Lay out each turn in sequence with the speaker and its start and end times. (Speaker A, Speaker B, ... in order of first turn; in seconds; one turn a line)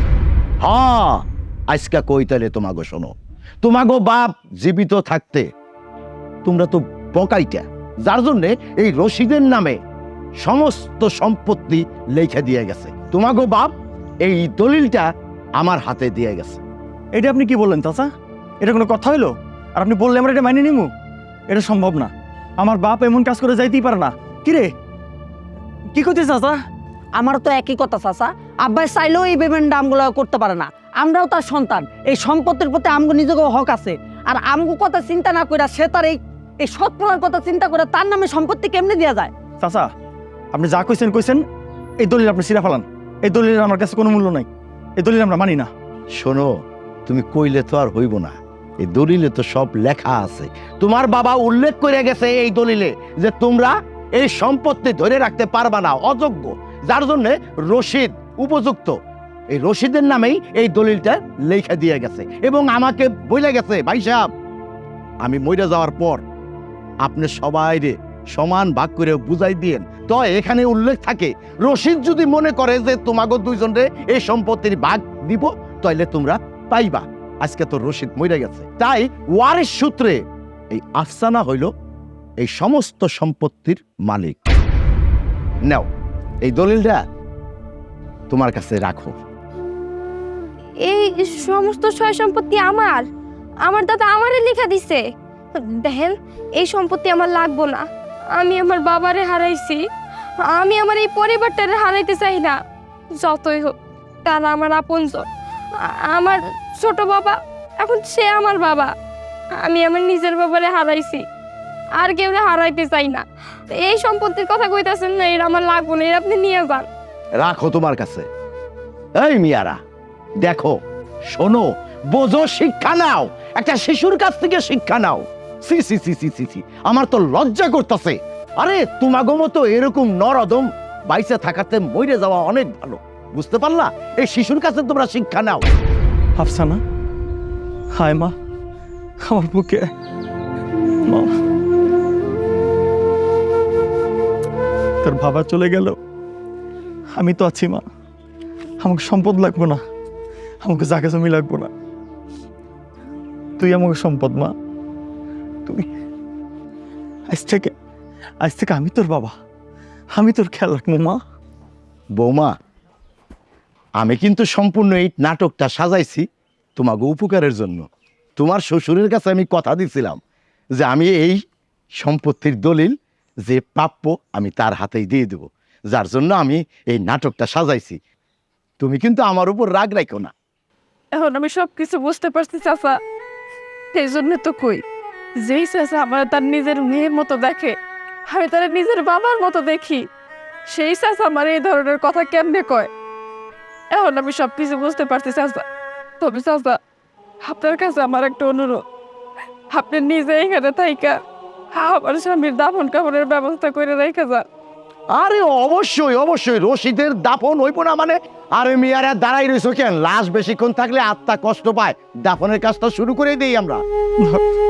Speaker A: 0.6-5.5
Speaker A: 6.4-9.8
Speaker A: 10.4-13.7
Speaker A: 14.2-15.1
Speaker A: 15.6-16.6
Speaker B: 17.1-18.1
Speaker B: 18.6-20.9
Speaker B: 21.5-24.7
Speaker B: 25.9-26.6
Speaker C: 27.2-39.3
Speaker B: 39.6-39.9
Speaker B: 40.5-41.4
Speaker B: 42.0-45.7
Speaker A: 46.2-46.5
Speaker A: 47.1-59.0
Speaker A: 59.5-64.2
Speaker A: 65.2-66.2
Speaker A: 67.0-80.2
Speaker A: 80.7-81.7
Speaker A: 82.4-84.4
Speaker A: 86.4-87.0
Speaker A: 88.3-89.1
Speaker D: 90.8-93.1
Speaker D: 93.6-95.0
Speaker D: 95.5-97.8
Speaker D: 98.4-99.8
Speaker D: 100.5-102.5
Speaker D: 103.2-105.3
Speaker D: 105.8-108.9
Speaker D: 109.6-111.2
Speaker D: 112.0-116.9
Speaker A: 117.4-118.3
Speaker A: 119.2-119.8
Speaker A: 120.4-120.8
Speaker A: 121.3-135.6
Speaker B: 136.4-136.8
Speaker B: 137.9-138.3
Speaker B: 139.2-139.9
Speaker B: 141.1-141.3
Speaker B: 145.0-146.0
Speaker B: 147.2-147.8
Speaker B: 148.8-149.8
Speaker B: 150.6-151.7
Speaker B: 153.6-154.5
Speaker B: 157.3-157.7
Speaker B: 158.4-159.3
Speaker B: 160.1-161.2
Speaker A: 162.2-162.5
Speaker A: 164.0-167.9
Speaker A: 168.4-170.2
Speaker A: 170.8-171.4
Speaker A: 172.0-172.9
Speaker A: 173.5-178.0
Speaker A: 178.8-180.3
Speaker E: 181.2-182.9
Speaker E: 183.9-184.8
Speaker E: 185.4-187.8
Speaker E: 188.3-190.0
Speaker E: 190.7-192.9
Speaker E: 193.9-195.6
Speaker E: 196.2-196.8
Speaker E: 197.4-198.8
Speaker E: 199.7-201.2
Speaker E: 201.8-204.4
Speaker A: 205.1-213.8